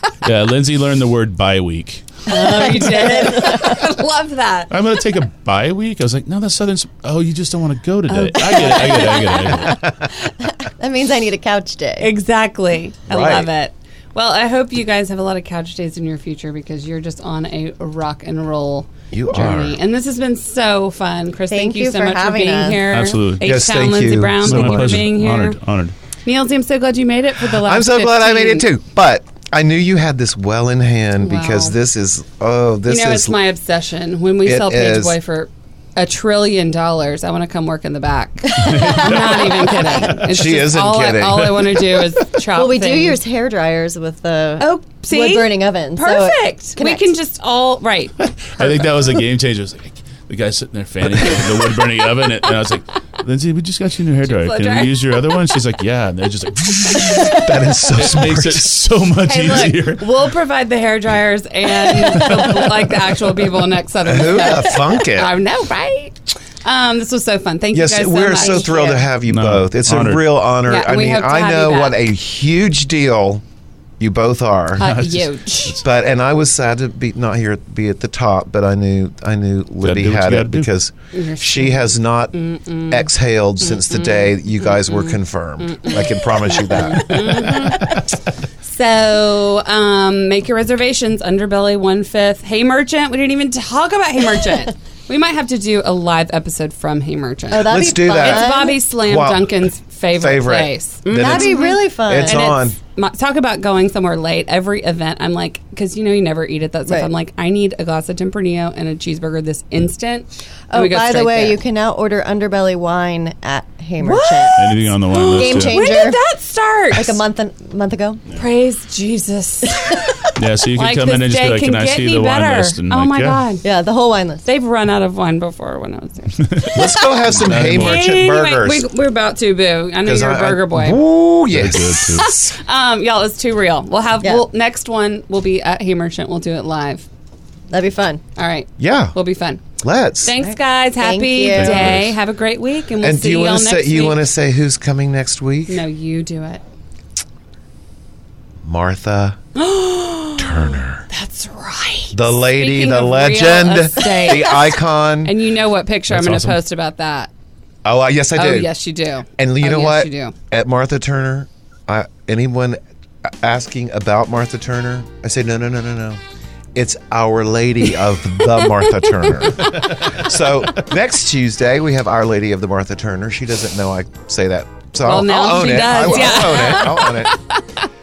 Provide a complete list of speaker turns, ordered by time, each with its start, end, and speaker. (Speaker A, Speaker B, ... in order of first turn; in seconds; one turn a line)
Speaker A: 0.2-2.3
Speaker B: 2.3-4.7
Speaker C: 2.3-3.8
Speaker A: 4.7-9.9
Speaker B: 8.1-8.8
Speaker C: 8.3-12.1
Speaker B: 12.0-25.6
Speaker D: 13.1-13.5
Speaker D: 19.1-19.8
Speaker C: 21.5-22.8
Speaker A: 22.9-23.6
Speaker D: 23.4-25.0
Speaker A: 24.4-25.9
Speaker B: 26.2-28.6
Speaker D: 27.6-33.4
Speaker B: 31.2-31.7
Speaker B: 32.9-43.2
Speaker D: 34.4-35.2
Speaker C: 38.5-40.1
Speaker A: 38.6-39.8
Speaker D: 40.3-42.0
Speaker C: 42.5-47.1
Speaker B: 44.6-48.1
Speaker A: 48.2-60.2
Speaker B: 54.2-55.0
Speaker D: 57.2-58.7
Speaker B: 59.2-69.1
Speaker A: 62.2-62.7
Speaker D: 64.0-65.3
Speaker D: 67.7-73.4
Speaker A: 69.3-70.3
Speaker B: 70.7-72.0
Speaker D: 74.0-74.9
Speaker B: 74.8-75.8
Speaker A: 74.8-75.8
Speaker D: 75.8-82.3
Speaker A: 79.8-80.7
Speaker B: 81.1-83.1
Speaker D: 82.9-87.8
Speaker B: 83.6-88.1
Speaker A: 87.5-87.8
Speaker B: 88.6-111.6
Speaker C: 97.5-98.8
Speaker D: 97.7-102.8
Speaker C: 101.1-102.5
Speaker C: 110.7-116.2
Speaker B: 114.0-117.2
Speaker A: 114.6-115.9
Speaker C: 116.9-118.2
Speaker B: 118.3-123.6
Speaker C: 119.7-120.3
Speaker A: 120.3-123.4
Speaker C: 123.6-124.4
Speaker B: 124.4-131.0
Speaker A: 126.4-126.8
Speaker D: 126.7-128.9
Speaker A: 127.3-128.2
Speaker D: 130.0-132.3
Speaker A: 131.5-132.4
Speaker B: 132.0-137.1
Speaker C: 137.7-138.2
Speaker B: 138.4-139.6
Speaker D: 138.8-139.2
Speaker D: 139.8-140.3
Speaker B: 140.2-144.2
Speaker C: 140.4-142.0
Speaker A: 141.5-142.2
Speaker D: 143.0-145.8
Speaker B: 145.7-146.6
Speaker D: 148.6-149.4
Speaker B: 149.5-157.3
Speaker D: 150.4-151.0
Speaker D: 152.1-155.3
Speaker A: 156.1-156.6
Speaker D: 157.8-158.7
Speaker B: 158.3-160.3
Speaker D: 159.4-166.2
Speaker D: 166.7-177.4
Speaker B: 168.6-169.7
Speaker A: 169.6-170.2
Speaker B: 175.0-177.6
Speaker C: 176.4-176.7